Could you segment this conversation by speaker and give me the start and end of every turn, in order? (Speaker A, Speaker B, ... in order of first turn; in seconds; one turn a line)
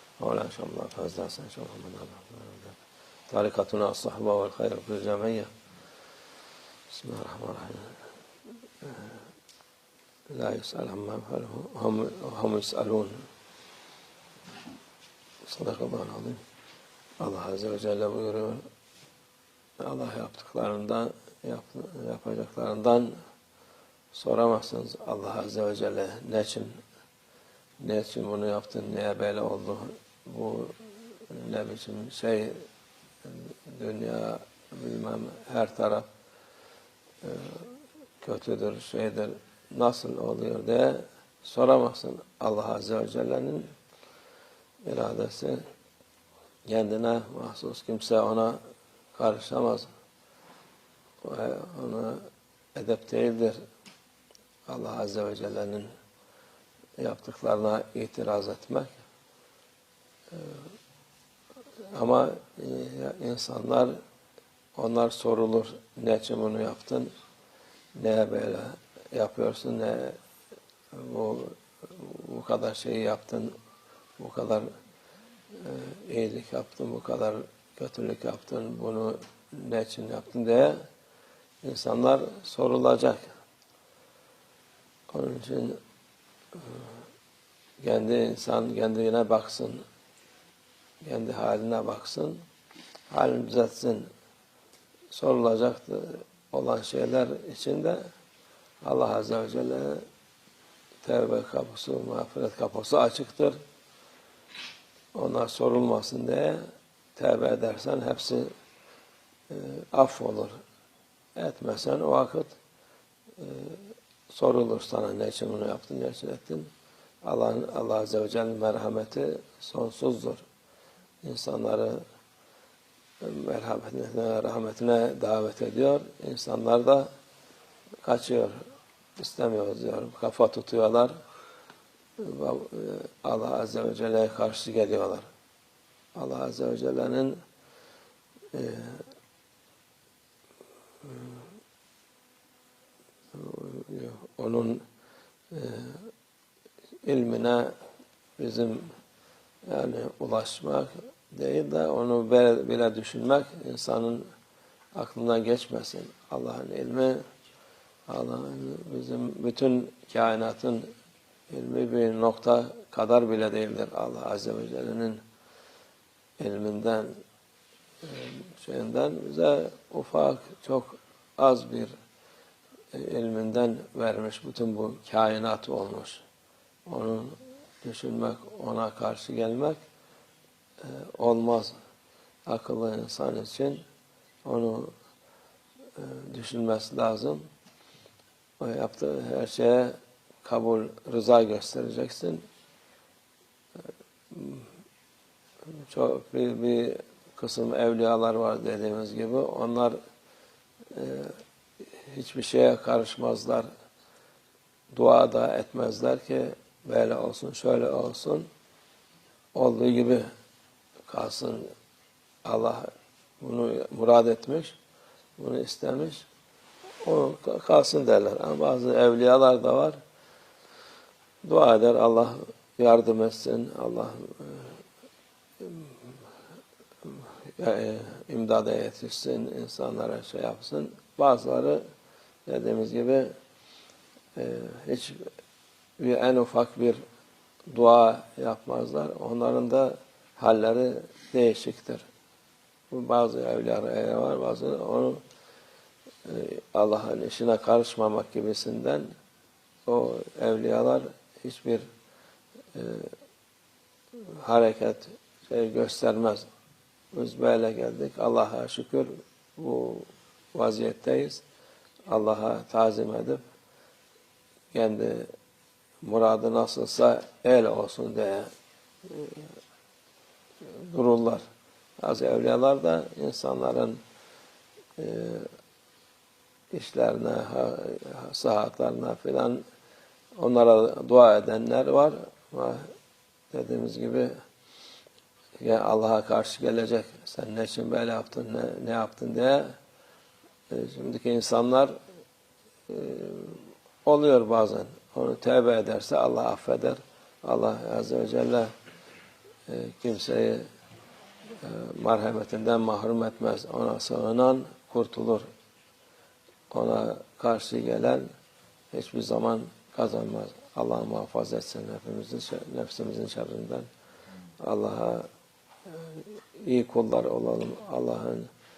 Speaker A: 0.2-2.8
Speaker A: 3.3-5.5
Speaker A: 6.9-8.0
Speaker A: 8.8-9.2
Speaker A: 10.3-13.2
Speaker A: 15.4-16.4
Speaker A: 17.2-18.6
Speaker A: 19.8-23.1
Speaker A: 24.1-26.8
Speaker A: 27.8-32.6
Speaker A: 33.2-36.1
Speaker A: 37.2-43.7
Speaker A: 44.8-45.6
Speaker A: 46.6-48.6
Speaker A: 49.1-49.9
Speaker A: 51.2-53.6
Speaker A: 54.7-55.9
Speaker A: 57.0-59.0
Speaker A: 60.3-60.6
Speaker A: 61.9-64.0
Speaker A: 64.8-67.1
Speaker A: 68.0-70.2
Speaker A: 70.9-73.5
Speaker A: 74.2-74.7
Speaker A: 75.5-80.8
Speaker A: 81.6-83.3
Speaker A: 85.1-85.8
Speaker A: 86.6-86.9
Speaker A: 87.8-89.8
Speaker A: 91.0-92.4
Speaker A: 93.1-94.1
Speaker A: 95.1-98.0
Speaker A: 98.8-100.0
Speaker A: 101.0-103.6
Speaker A: 105.1-106.6
Speaker A: 107.2-108.5
Speaker A: 109.5-110.6
Speaker A: 111.3-112.5
Speaker A: 113.4-116.7
Speaker A: 117.2-120.4
Speaker A: 121.2-122.0
Speaker A: 123.2-127.1
Speaker A: 128.0-128.6
Speaker A: 129.2-131.1
Speaker A: 132.2-135.3
Speaker A: 136.1-137.4
Speaker A: 138.5-139.1
Speaker A: 141.0-141.4
Speaker A: 143.3-144.8
Speaker A: 145.5-146.1
Speaker A: 147.0-147.7
Speaker A: 148.4-148.9
Speaker A: 149.6-154.3
Speaker A: 154.9-157.2
Speaker A: 158.1-160.9
Speaker A: 161.5-165.2
Speaker A: 166.4-167.2
Speaker A: 168.0-171.9
Speaker A: 172.9-176.2
Speaker A: 176.8-179.8
Speaker A: 180.8-181.7
Speaker A: 182.4-183.8
Speaker A: 184.4-184.9
Speaker A: 186.0-187.4
Speaker A: 188.6-192.4
Speaker A: 194.3-194.7
Speaker A: 195.7-200.0
Speaker A: 200.9-201.3
Speaker A: 202.0-203.7
Speaker A: 204.9-208.5
Speaker A: 209.5-210.3
Speaker A: 211.1-211.7
Speaker A: 212.4-214.8
Speaker A: 215.4-216.3
Speaker A: 217.0-220.0
Speaker A: 221.4-224.8
Speaker A: 225.6-226.1
Speaker A: 227.0-231.8
Speaker A: 232.4-233.3
Speaker A: 234.3-235.2
Speaker A: 236.0-237.0
Speaker A: 237.7-242.0
Speaker A: 242.9-245.2
Speaker A: 246.2-249.1
Speaker A: 249.8-251.8
Speaker A: 252.7-253.1
Speaker A: 254.2-256.4
Speaker A: 257.1-261.4
Speaker A: 262.1-263.4
Speaker A: 264.7-265.3
Speaker A: 266.0-268.5
Speaker A: 269.0-269.5
Speaker A: 270.6-271.4
Speaker A: 272.0-274.0
Speaker A: 275.0-275.5
Speaker A: 276.7-279.6
Speaker A: 280.4-282.9
Speaker A: 283.5-284.3
Speaker A: 285.6-289.7
Speaker A: 290.7-291.9
Speaker A: 292.9-298.7
Speaker A: 299.7-300.6
Speaker A: 301.6-305.5
Speaker A: 306.7-308.2
Speaker A: 308.9-313.9
Speaker A: 314.6-315.3
Speaker A: 315.9-318.5